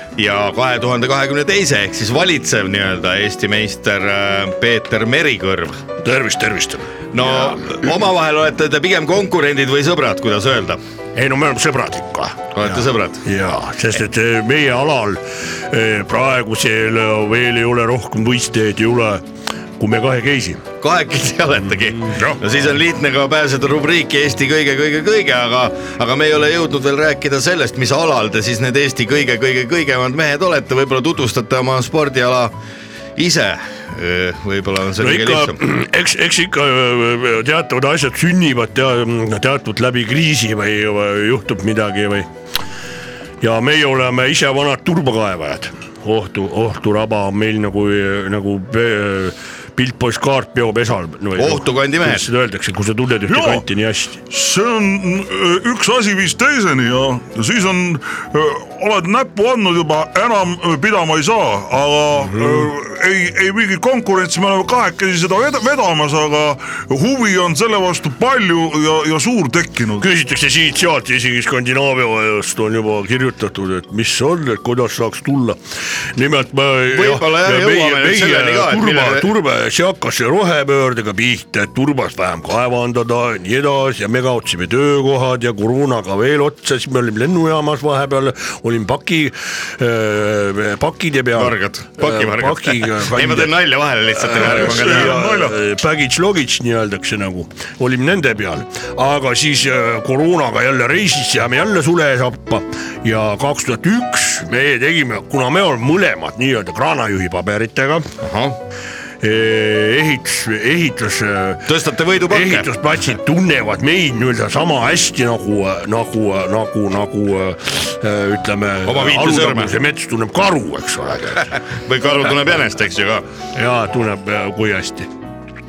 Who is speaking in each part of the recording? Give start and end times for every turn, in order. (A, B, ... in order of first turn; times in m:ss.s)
0:00.2-0:05.8 A
0:06.0-0:07.8 B
0:07.1-0:10.8 A
0:11.1-0:19.2 B
0:12.5-0:13.2 A
0:19.8-0:20.6 B
0:20.8-0:32.5 A
0:33.2-0:35.6 A
0:35.0-0:42.3 B
0:43.4-0:54.2 B
0:51.4-0:52.3 A
0:53.3-0:53.6 C
0:54.3-1:10.1 C
1:02.2-1:02.7 B
1:10.0-1:15.6 B
1:16.1-1:33.5 B
1:16.9-1:19.3 A
1:31.4-1:35.2 A
1:34.1-1:48.1 B
1:34.3-1:35.6 C
1:48.2-1:48.6 A
1:49.2-1:51.7 B
1:51.7-1:52.7 A
1:52.3-2:01.6 B
1:58.8-1:59.7 A
2:01.5-2:03.2 A
2:03.5-2:05.1 B